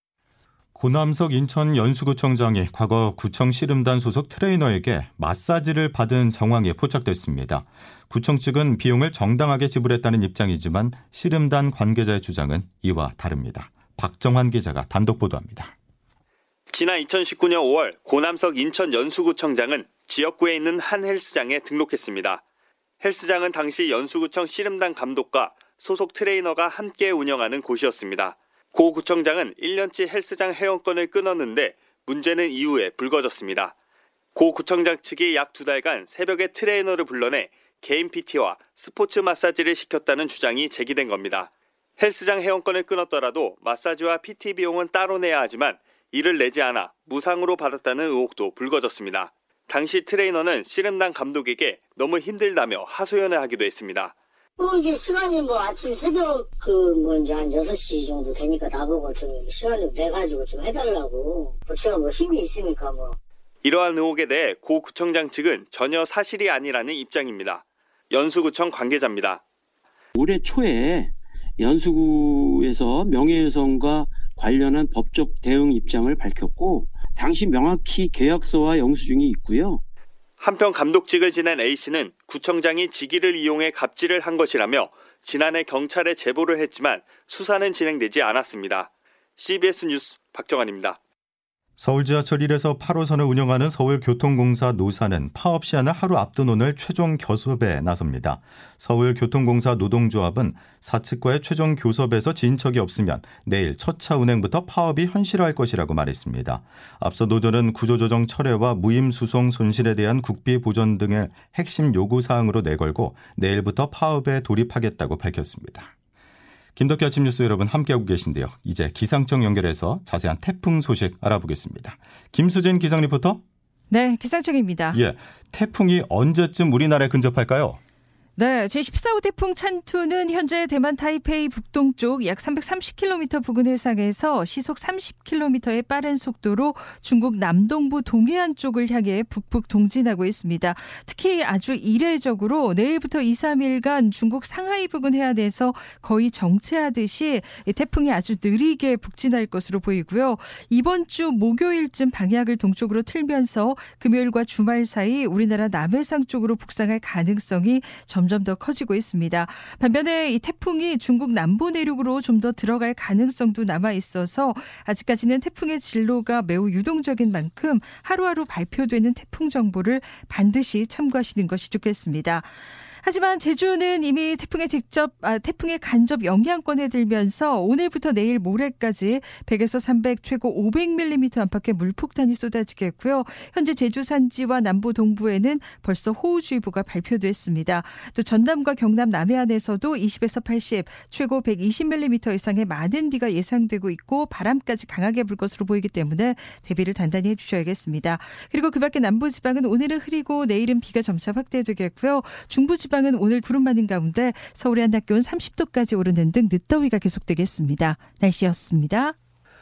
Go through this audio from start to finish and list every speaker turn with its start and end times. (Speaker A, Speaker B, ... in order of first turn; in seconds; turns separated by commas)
Speaker A: 0.7-15.7, Speaker B: 16.7-22.4, Speaker B: 23.0-33.7, Speaker B: 34.3-54.1, Speaker C: 54.6-63.1, Speaker B: 63.6-69.4, Speaker D: 70.2-79.8, Speaker B: 80.4-91.0, Speaker A: 91.8-115.9, Speaker A: 116.8-123.4, Speaker E: 123.9-125.0, Speaker A: 124.9-127.8, Speaker E: 128.4-209.1